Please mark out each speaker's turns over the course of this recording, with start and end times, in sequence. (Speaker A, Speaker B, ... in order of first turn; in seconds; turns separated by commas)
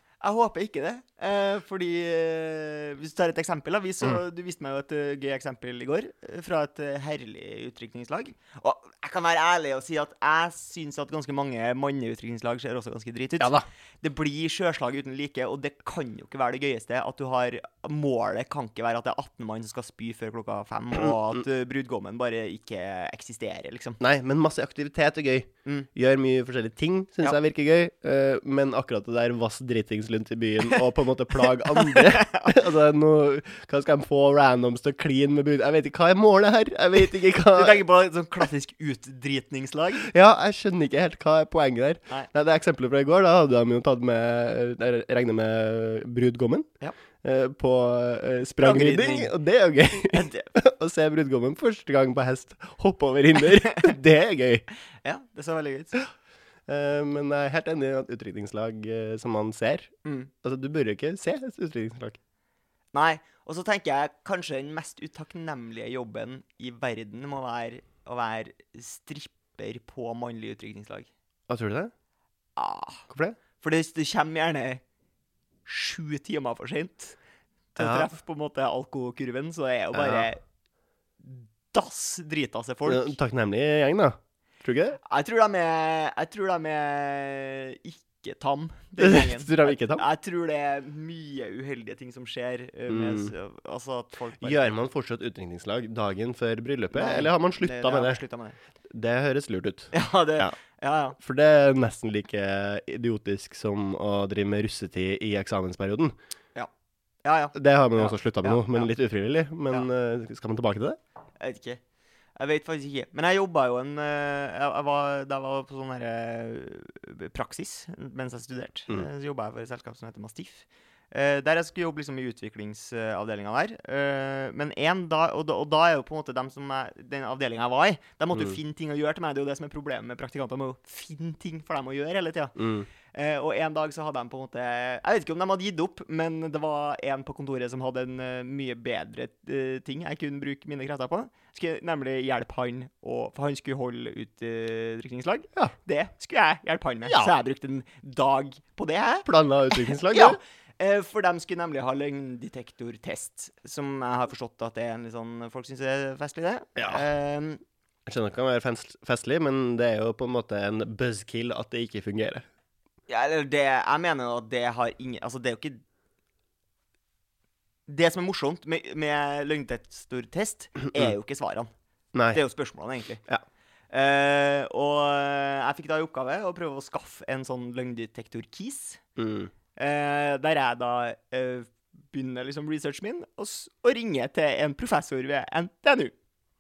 Speaker A: 0.2-24.0, Speaker B: 13.4-13.7, Speaker B: 24.0-37.8, Speaker A: 31.3-32.6, Speaker A: 37.5-40.1, Speaker B: 40.0-46.7, Speaker B: 47.2-54.6, Speaker A: 48.6-49.3, Speaker A: 50.1-50.5, Speaker A: 53.6-53.9, Speaker A: 55.0-56.0, Speaker B: 56.7-62.2, Speaker A: 60.0-60.3, Speaker A: 62.9-71.1, Speaker B: 71.5-71.9, Speaker A: 72.6-73.1, Speaker B: 73.1-73.4, Speaker A: 73.6-74.8, Speaker A: 75.7-77.2, Speaker A: 77.8-80.4, Speaker B: 77.8-78.1, Speaker B: 79.9-80.3, Speaker A: 81.2-83.2, Speaker B: 82.9-85.0, Speaker A: 85.0-94.9, Speaker B: 89.0-90.0, Speaker B: 92.9-93.3, Speaker B: 94.4-98.2, Speaker A: 96.9-98.6, Speaker B: 98.9-100.5, Speaker A: 99.9-101.2, Speaker B: 101.2-106.1, Speaker A: 107.2-108.9, Speaker B: 107.5-111.0, Speaker A: 111.4-111.8, Speaker A: 112.4-132.6, Speaker B: 132.6-132.9, Speaker A: 133.1-157.6, Speaker B: 147.1-147.3, Speaker B: 149.2-150.4, Speaker B: 156.8-157.1, Speaker B: 158.1-162.5, Speaker A: 163.1-165.8, Speaker A: 167.9-171.7, Speaker B: 172.1-172.4, Speaker A: 172.3-173.2, Speaker A: 173.9-179.0, Speaker B: 179.2-179.5, Speaker A: 179.8-186.1